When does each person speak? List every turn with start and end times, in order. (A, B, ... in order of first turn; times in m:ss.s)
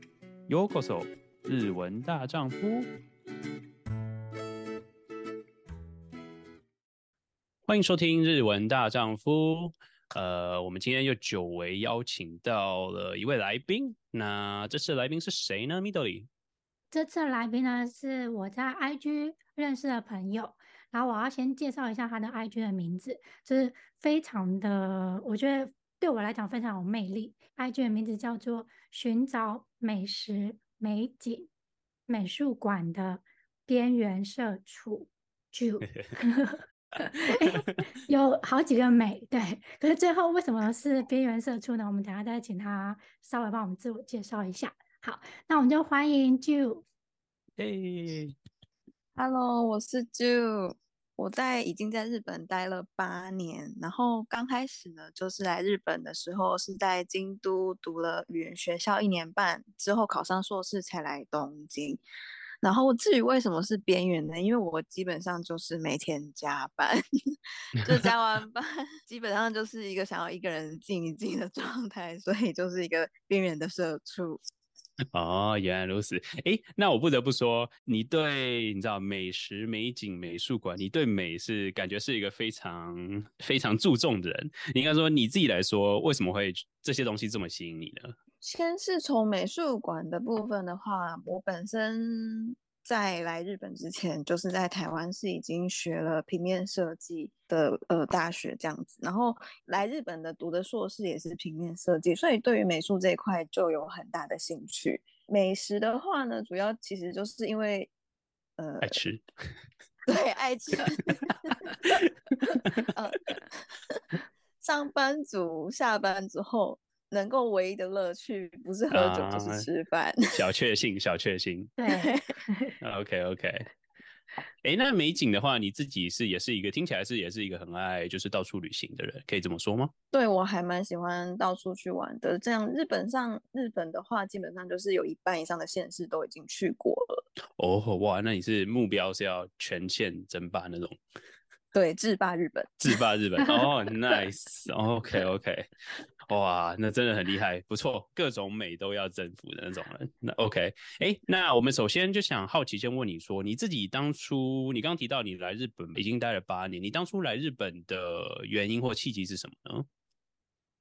0:00.5-0:02.9 A
0:07.7-0:16.3 A
0:16.9-0:31.5 B
0:32.1-0:46.8 B
0:47.6-0:48.4 A
0:49.2-1:02.0 C
1:02.6-1:07.0 C
1:07.8-1:14.4 C
1:15.1-1:28.2 A
1:28.4-1:47.9 C
1:48.6-1:49.0 C
1:48.8-1:49.2 A
1:50.1-1:51.2 C
1:52.7-1:53.4 A
1:52.9-1:54.0 C
1:54.6-2:00.3 C
1:58.9-1:59.7 A
2:00.3-2:01.7 A
2:01.8-2:02.8 B
2:01.9-2:02.2 C
2:02.8-2:03.7 A
2:04.6-2:09.9 A
2:10.1-2:17.2 C
2:17.6-2:21.0 A
2:21.7-2:22.9 C
2:22.8-2:25.7 A
2:26.3-2:39.9 A